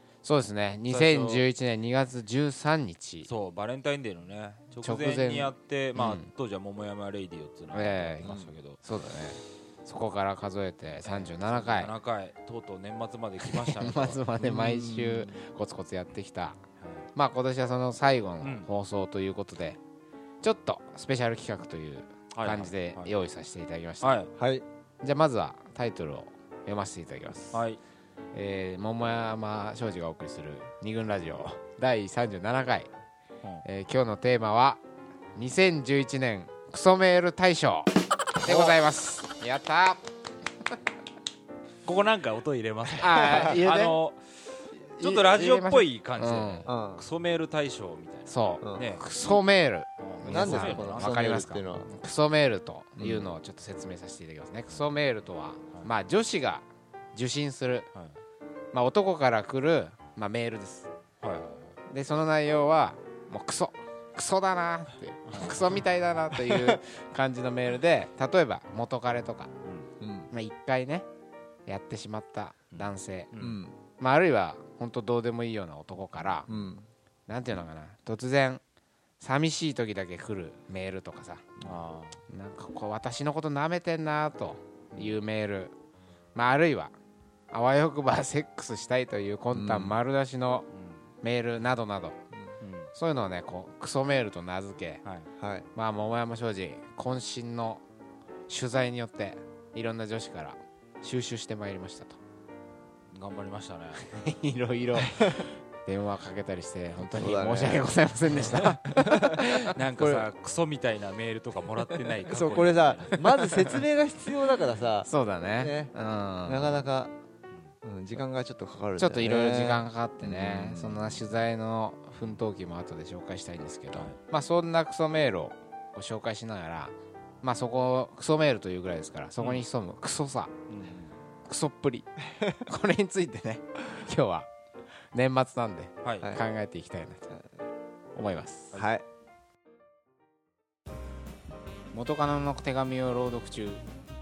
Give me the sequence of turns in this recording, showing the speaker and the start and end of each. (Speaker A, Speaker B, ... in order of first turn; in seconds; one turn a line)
Speaker A: 0.2-3.3
Speaker B: 0.9-1.4
Speaker B: 3.2-8.8
Speaker A: 4.8-6.3
Speaker A: 7.7-11.9
Speaker C: 8.2-8.5
Speaker B: 11.0-14.2
Speaker A: 13.4-16.6
Speaker C: 14.4-15.4
Speaker B: 16.8-17.1
Speaker A: 17.1-19.8
Speaker B: 18.4-18.7
Speaker A: 20.4-24.2
Speaker B: 22.3-23.1
Speaker B: 24.0-24.3
Speaker C: 24.4-24.6
Speaker A: 25.0-27.7
Speaker B: 27.5-27.8
Speaker A: 28.3-32.9
Speaker A: 33.6-34.8
Speaker A: 35.4-37.9
Speaker A: 38.4-40.0
Speaker B: 38.5-38.7
Speaker B: 41.8-49.0
Speaker A: 42.9-44.0
Speaker A: 45.0-46.7
Speaker C: 46.6-47.0
Speaker A: 48.3-57.9
Speaker C: 48.6-48.9
Speaker B: 50.0-51.2
Speaker C: 50.2-51.9
Speaker C: 53.0-53.3
Speaker A: 58.7-60.9
Speaker B: 61.2-61.8
Speaker A: 61.9-69.5
Speaker B: 65.3-65.6
Speaker B: 69.6-69.9
Speaker C: 70.0-70.3
Speaker A: 70.3-71.0
Speaker A: 71.7-73.3
Speaker B: 72.7-73.6
Speaker C: 73.4-73.8
Speaker A: 74.0-76.5
Speaker C: 76.5-76.8
Speaker A: 77.3-78.6
Speaker A: 79.2-81.7
Speaker B: 81.6-82.2
Speaker A: 82.3-85.7
Speaker B: 84.9-85.2
Speaker A: 86.3-86.9
Speaker A: 87.5-90.7
Speaker C: 89.5-90.0
Speaker B: 90.7-91.0
Speaker A: 91.2-92.2
Speaker B: 92.6-92.9
Speaker A: 92.9-95.0
Speaker C: 95.4-95.7
Speaker A: 95.7-97.8
Speaker A: 98.5-102.2
Speaker B: 103.1-104.0
Speaker A: 104.1-109.7
Speaker C: 107.1-107.9
Speaker B: 108.4-113.3
Speaker C: 109.0-109.4
Speaker C: 110.0-110.3
Speaker C: 112.3-115.9
Speaker A: 115.0-116.9
Speaker C: 116.4-117.1
Speaker C: 117.8-121.2
Speaker A: 119.0-130.5
Speaker B: 123.9-124.2
Speaker B: 129.4-129.6
Speaker B: 130.7-131.1
Speaker A: 131.4-134.5
Speaker A: 135.1-137.3
Speaker B: 136.0-136.3
Speaker A: 138.2-138.8
Speaker C: 138.7-139.0
Speaker A: 141.9-143.8